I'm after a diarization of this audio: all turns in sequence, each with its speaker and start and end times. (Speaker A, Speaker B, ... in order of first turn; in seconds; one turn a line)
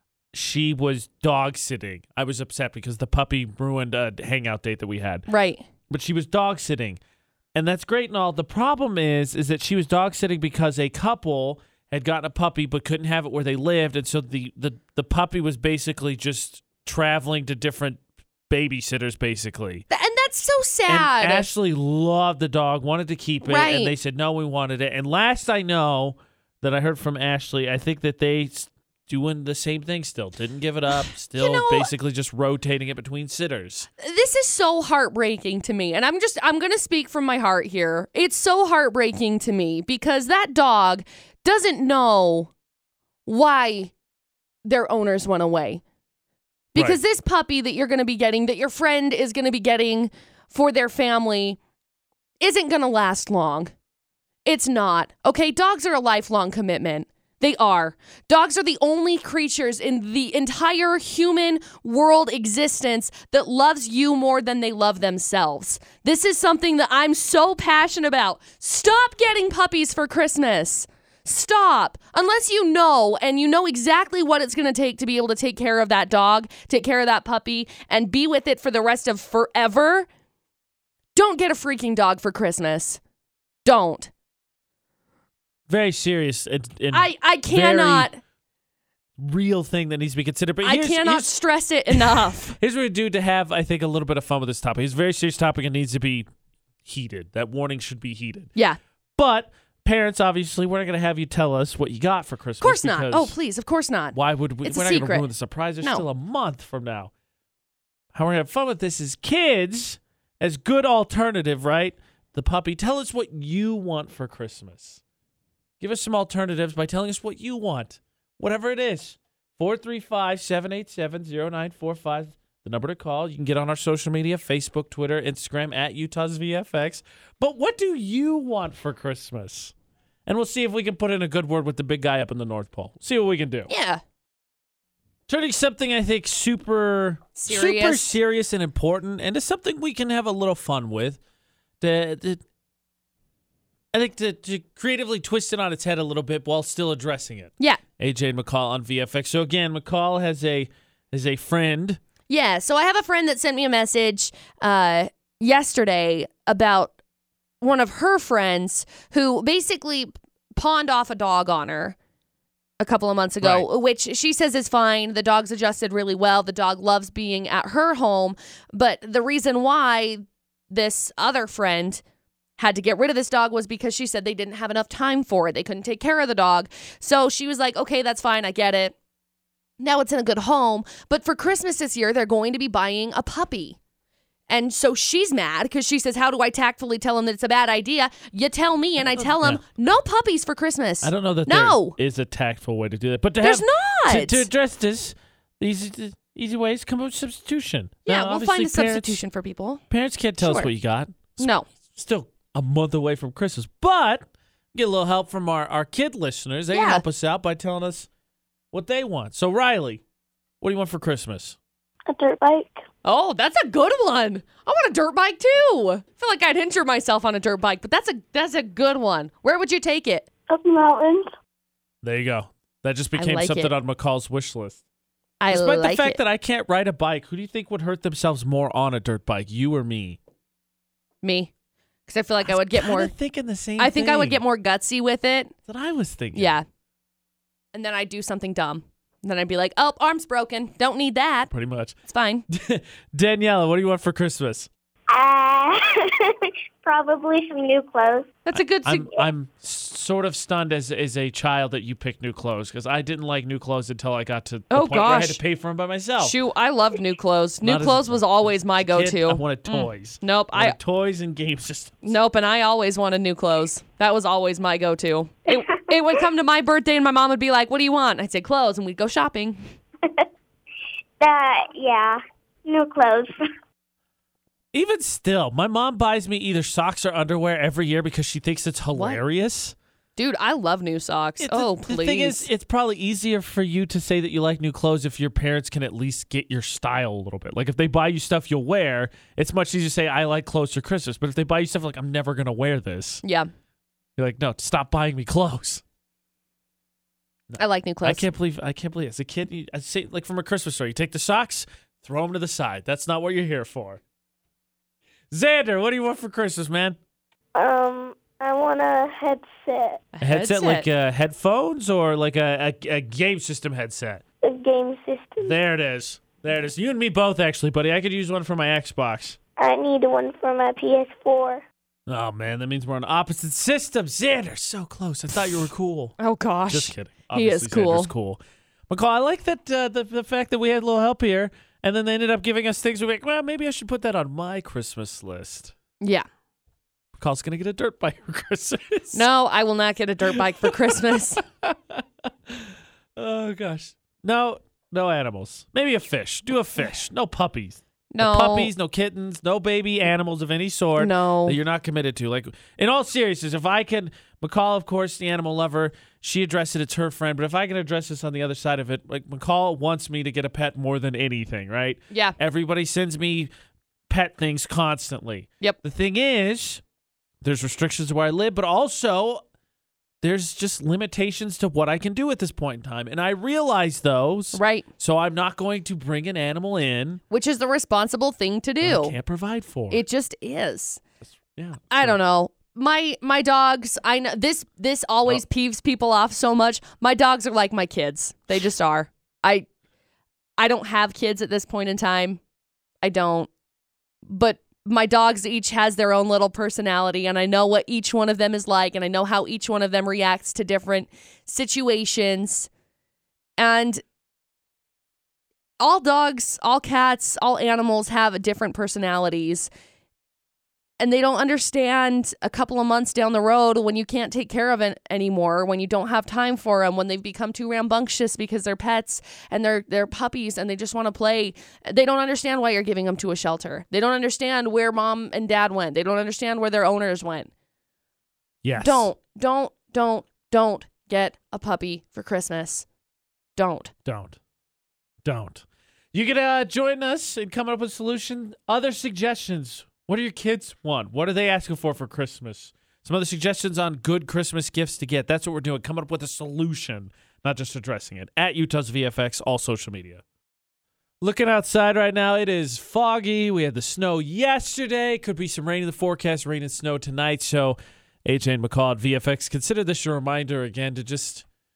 Speaker A: 0.3-5.3
Speaker B: 5.3-5.7
Speaker A: 5.9-7.0
Speaker A: 7.5-19.9
Speaker B: 19.9-21.5
Speaker A: 20.9-33.9
Speaker B: 23.4-23.9
Speaker B: 31.4-31.9
Speaker B: 34.0-42.5
Speaker B: 43.3-43.9
Speaker B: 44.6-45.8
Speaker B: 46.7-51.6
Speaker B: 52.4-53.7
Speaker B: 54.5-80.1
Speaker B: 81.2-83.0
Speaker B: 83.7-84.1
Speaker A: 85.7-88.1
Speaker B: 86.9-88.2
Speaker A: 89.2-91.3
Speaker B: 90.6-92.6
Speaker A: 91.9-96.3
Speaker A: 96.8-98.5
Speaker A: 99.2-103.3
Speaker B: 102.6-105.3
Speaker A: 104.1-107.1
Speaker A: 108.1-115.0
Speaker A: 115.8-129.7
Speaker A: 130.3-133.7
Speaker B: 133.7-134.0
Speaker A: 135.3-141.2
Speaker B: 137.4-138.2
Speaker A: 141.8-142.4
Speaker A: 143.9-152.0
Speaker B: 152.3-156.9
Speaker B: 157.6-162.0
Speaker B: 162.8-172.0
Speaker A: 163.4-163.7
Speaker B: 172.6-178.9
Speaker B: 179.8-183.8
Speaker B: 184.5-192.0
Speaker A: 189.0-189.6
Speaker A: 191.0-199.2
Speaker B: 193.4-194.5
Speaker B: 198.1-199.8
Speaker A: 199.9-208.1
Speaker B: 200.4-200.7
Speaker B: 201.4-201.7
Speaker B: 206.7-207.0
Speaker A: 208.7-210.0
Speaker A: 210.6-211.6
Speaker C: 212.1-212.8
Speaker B: 213.0-220.3
Speaker C: 220.5-221.3
Speaker A: 222.0-224.8
Speaker B: 223.2-223.7
Speaker B: 225.4-226.2
Speaker A: 225.5-230.2
Speaker B: 231.2-231.5
Speaker B: 232.1-233.1
Speaker A: 232.4-234.4
Speaker B: 233.8-235.5
Speaker A: 235.7-236.5
Speaker B: 236.3-236.7
Speaker B: 237.7-241.5
Speaker A: 241.5-242.0
Speaker B: 242.1-242.4
Speaker A: 242.5-244.7
Speaker C: 245.1-248.4
Speaker B: 248.5-249.1
Speaker A: 248.6-256.4
Speaker B: 254.7-255.4
Speaker B: 256.2-260.8
Speaker A: 257.6-262.1
Speaker B: 262.0-269.6
Speaker C: 271.2-273.4
Speaker A: 274.7-279.8
Speaker B: 278.9-279.2
Speaker B: 280.2-282.5
Speaker A: 281.4-293.2
Speaker B: 293.2-293.5
Speaker A: 294.2-295.8
Speaker A: 297.5-304.0
Speaker B: 297.6-298.2
Speaker A: 305.3-307.0
Speaker C: 307.6-310.0
Speaker B: 310.1-310.9
Speaker A: 310.2-314.2
Speaker C: 314.4-315.6
Speaker A: 315.4-319.4
Speaker C: 319.6-321.6
Speaker A: 322.1-326.1
Speaker B: 326.2-328.1
Speaker A: 326.7-335.7
Speaker B: 336.0-336.3
Speaker A: 337.2-339.3
Speaker B: 339.1-341.4
Speaker A: 340.4-340.7
Speaker A: 341.6-363.5
Speaker B: 348.1-348.7
Speaker B: 351.0-351.6
Speaker B: 362.1-362.4
Speaker A: 364.1-366.8
Speaker A: 367.4-369.4
Speaker A: 370.2-377.2
Speaker B: 374.5-374.9
Speaker B: 377.3-379.2
Speaker A: 378.8-380.0
Speaker B: 379.9-381.0
Speaker A: 381.2-382.2
Speaker B: 381.9-389.7
Speaker B: 390.6-392.4
Speaker B: 393.0-393.5
Speaker B: 394.3-402.7
Speaker B: 403.6-404.0
Speaker B: 405.8-409.7
Speaker B: 411.0-427.5
Speaker A: 428.6-429.1
Speaker B: 428.8-432.9
Speaker B: 433.6-433.9
Speaker A: 434.1-434.4
Speaker A: 435.2-450.2
Speaker A: 451.2-461.4